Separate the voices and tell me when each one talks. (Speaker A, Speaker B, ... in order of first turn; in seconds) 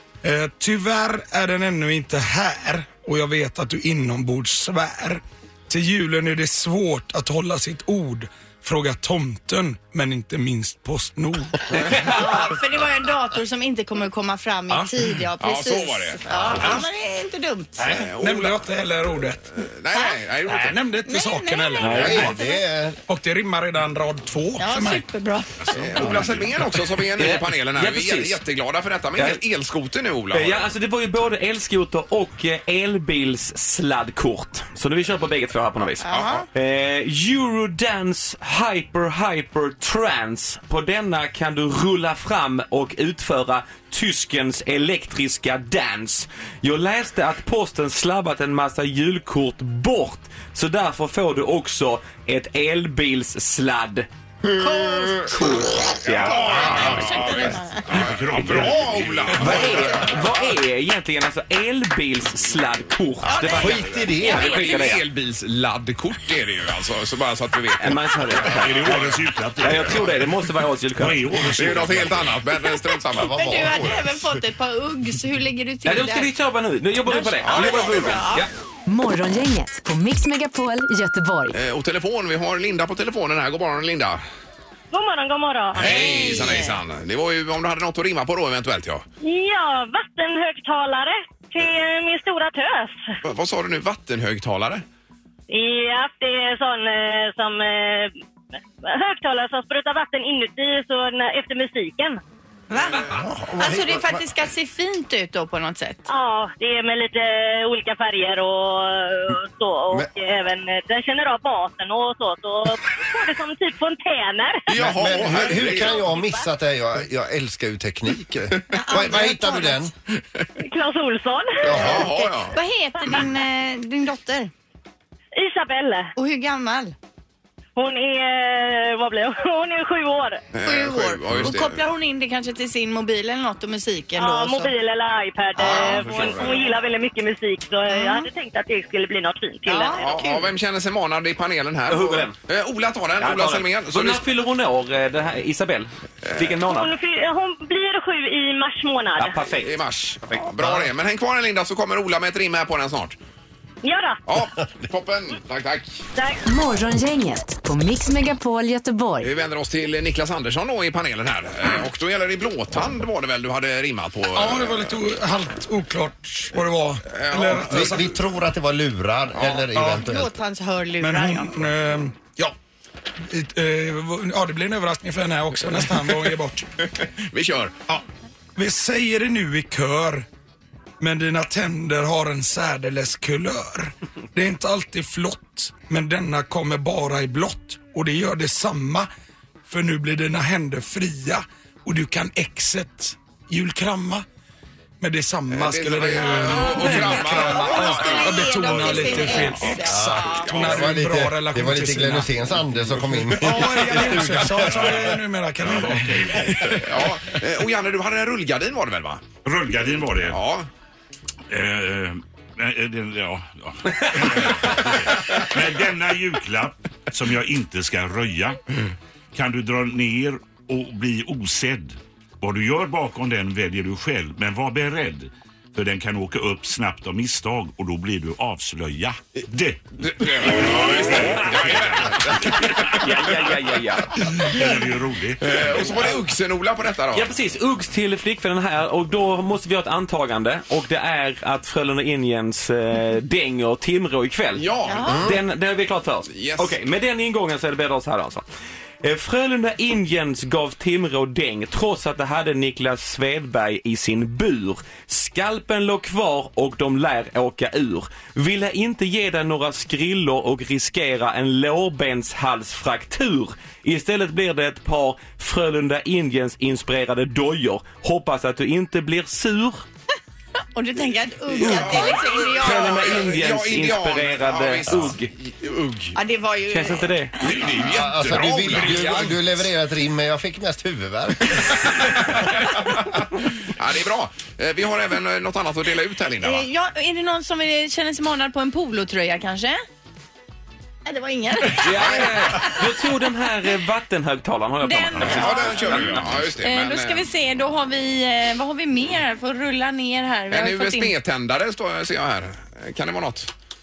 Speaker A: 0.2-12.2, 17.8-19.4, 20.4-22.4, 23.1-25.1, 164.3-168.1, 171.0-172.5, 173.2-176.7, 178.6-180.2, 181.0-189.1, 189.7-194.2, 195.0-202.3, 203.2-206.8
Speaker B: 11.9-17.8, 19.9-20.2, 21.0-22.6, 24.6-26.2, 36.0-36.5, 54.5-58.0, 63.3-65.0, 73.2-76.3, 77.0-78.5, 85.8-86.8, 102.7-106.0, 118.7-119.9, 121.7-124.5, 126.2-126.9, 130.6-134.7, 137.9-138.3, 139.7-140.5, 169.7-171.7, 196.2-200.6, 244.9-245.3, 270.7-273.1, 276.1-277.7, 286.4-289.8, 291.0-292.7, 294.8-301.1
Speaker C: 15.4-16.8, 17.8-18.6, 19.6-20.8, 25.7-30.7, 36.0-36.5, 56.1-60.2, 64.2-69.2, 71.5-73.3, 77.4-78.2, 81.5-84.2, 85.7-89.0, 93.2-94.8, 114.7-116.0, 121.7-122.6, 130.5-131.8, 135.6-136.7, 139.9-144.2, 146.2-146.6, 149.6-153.2, 154.3-156.0, 159.2-164.9, 167.1-168.0, 176.8-178.0, 195.5-199.7, 200.4-200.9, 206.6-209.2, 210.3-210.7, 230.0-233.2, 235.4-237.3, 244.6-245.3, 246.3-246.7, 271.5-276.1, 277.4-279.6, 282.1-283.0, 283.8-286.7, 295.2-297.3, 300.5-303.5
Speaker D: 21.8-22.3, 27.2-28.4, 30.3-54.1, 55.3-56.8, 59.3-65.0, 67.8-68.9, 69.6-71.2, 75.8-78.5, 135.8-136.3, 141.9-142.3, 143.2-146.9, 149.2-150.5, 232.7-234.2, 237.1-248.4, 249.0-269.8, 271.6-275.3, 276.7-277.3, 291.7-296.4
Speaker E: 21.9-23.0, 56.4-56.9, 63.3-64.5, 73.1-74.3, 103.0-104.2, 114.7-119.9, 121.6-122.1, 167.6-170.3, 199.8-205.1, 245.1-245.3, 277.8-282.2
Speaker F: 25.6-26.7, 56.7-59.9, 68.4-70.3, 70.9-72.4, 204.7-206.8, 209.4-210.4, 211.5-218.6, 219.3-233.0, 234.2-236.2, 295.2-295.4
Speaker G: 78.9-81.5, 156.4-159.3
Speaker H: 84.9-86.3, 89.2-93.1, 95.5-98.1, 98.8-102.2, 106.1-114.7, 115.7-116.4, 120.6-121.7, 125.3-126.1, 127.8-130.4, 134.2-140.1, 146.7-149.4, 153.8-154.2, 156.1-156.4